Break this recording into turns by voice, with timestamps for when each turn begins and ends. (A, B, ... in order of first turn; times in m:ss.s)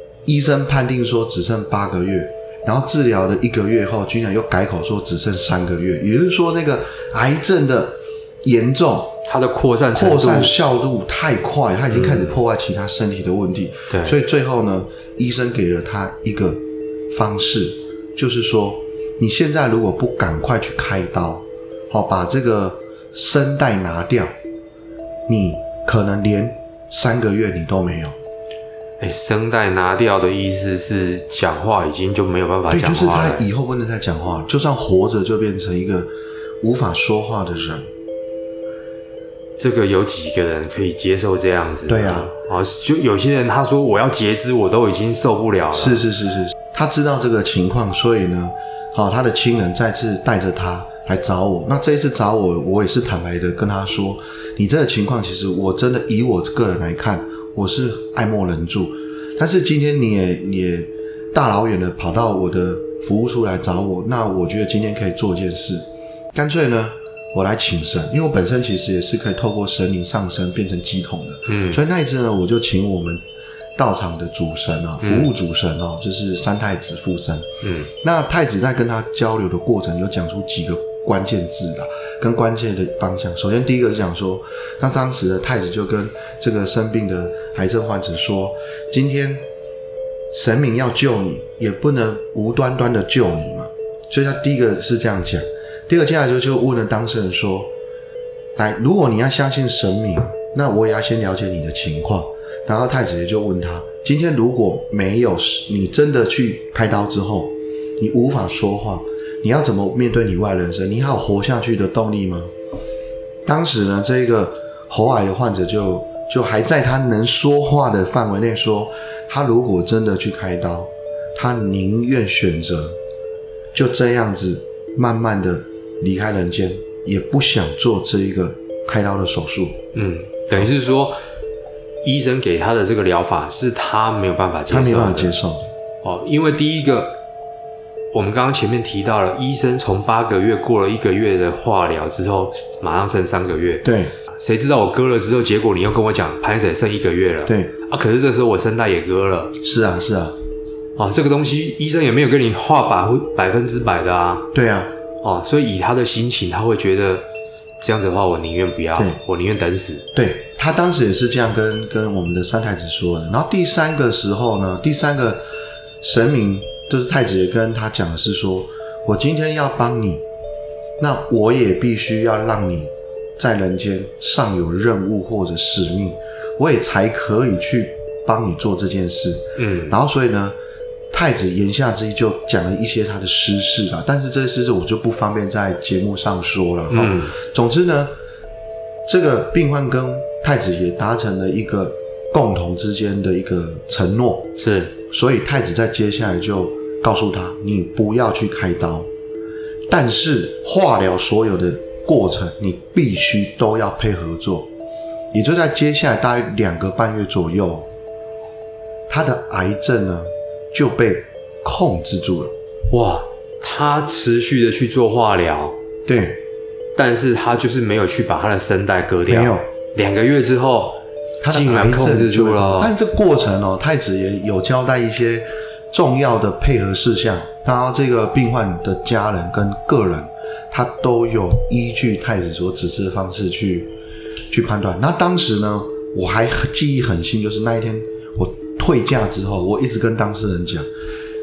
0:00.3-0:09.2 A
0:09.2-0:10.6 B
0:09.9-0:24.3 A
0:11.9-0:12.4 B
0:13.9-0:14.2 B
0:25.3-0:28.2 A
0:29.0-0:33.4 B
0:32.7-0:37.9 A
0:39.6-0:46.0 B
0:41.9-0:42.3 A
0:45.7-1:13.2 A
1:11.5-1:11.8 B
1:13.8-1:29.4 A
1:15.0-1:15.3 B
1:17.6-1:17.9 B
1:30.3-1:37.7 A
1:38.6-1:52.5 A
1:53.4-2:03.0 A
2:03.7-2:09.8 A
2:09.9-2:11.2 B
2:12.0-2:15.4 B
2:14.7-2:15.7 A
2:16.0-2:17.2 B
2:18.1-2:29.6 B
2:23.8-2:24.1 A
2:27.5-2:27.7 A
2:29.6-2:30.4 A
2:31.0-2:34.5 B
2:34.5-2:34.9 A
2:35.2-2:37.3 B
2:37.8-2:40.1 B
2:40.1-2:45.5 A
2:46.0-2:50.2 A
2:51.0-3:00.6 A
2:59.6-3:00.0 B
3:01.1-3:08.1 A
3:06.9-3:07.4 B
3:09.0-3:14.5 A
3:14.6-3:14.9 B
3:15.1-3:19.1 A
3:19.9-3:24.7 A
3:25.3-3:27.9 A
3:29.1-3:32.5 A
3:32.9-3:35.8 B
3:36.1-3:36.4 A
3:37.0-3:42.9 B
3:39.2-3:39.7 A
3:41.4-3:53.9 A
3:54.5-4:00.9 A